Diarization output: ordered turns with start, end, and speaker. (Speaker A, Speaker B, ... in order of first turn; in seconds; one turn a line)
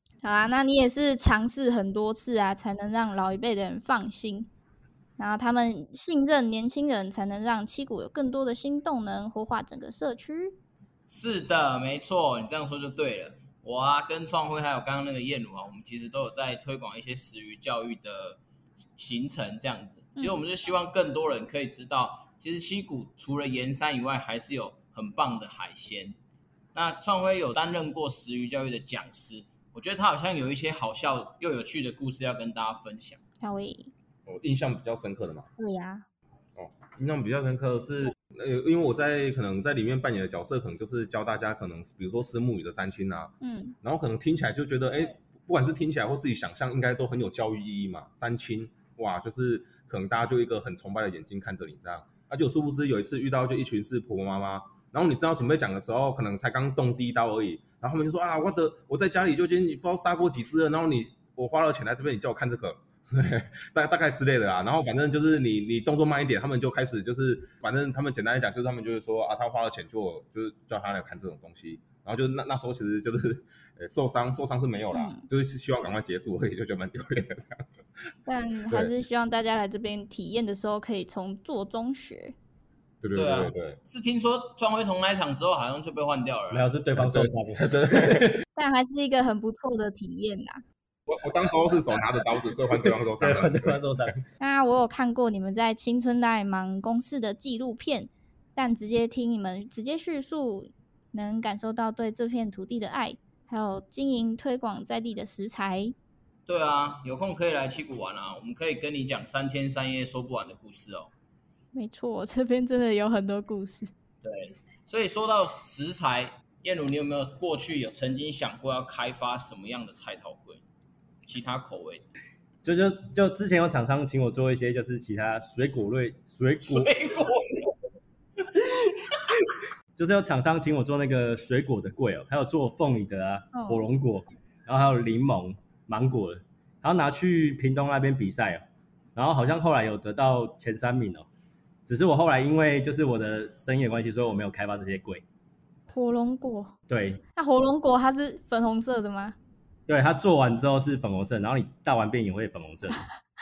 Speaker A: 0.2-4.5
Speaker A: 5.2-10.5
Speaker B: 11.1-18.4
Speaker B: 18.9-26.1
Speaker A: 20.2-20.4
Speaker B: 26.7-33.2
Speaker A: 33.4-33.9
Speaker C: 34.2-35.5
Speaker A: 35.6-36.0
Speaker C: 36.5-77.6
Speaker A: 43.4-43.8
Speaker A: 74.9-75.2
Speaker A: 78.2-82.3
Speaker C: 83.0-83.8
Speaker B: 83.1-86.7
Speaker D: 86.5-88.4
Speaker C: 87.0-88.3
Speaker A: 88.5-90.6
Speaker C: 91.1-93.8
Speaker D: 93.2-94.2
Speaker A: 94.4-105.9
Speaker B: 106.5-111.1
Speaker A: 111.7-113.9
Speaker B: 114.2-120.6
Speaker B: 121.2-122.0
Speaker D: 122.6-126.9
Speaker B: 126.6-127.8
Speaker B: 128.9-129.2
Speaker D: 130.0-138.6
Speaker A: 133.5-133.9
Speaker D: 139.2-141.2
Speaker D: 141.8-145.2
Speaker A: 145.9-146.7
Speaker D: 146.9-147.2
Speaker A: 147.3-149.3
Speaker D: 149.9-153.0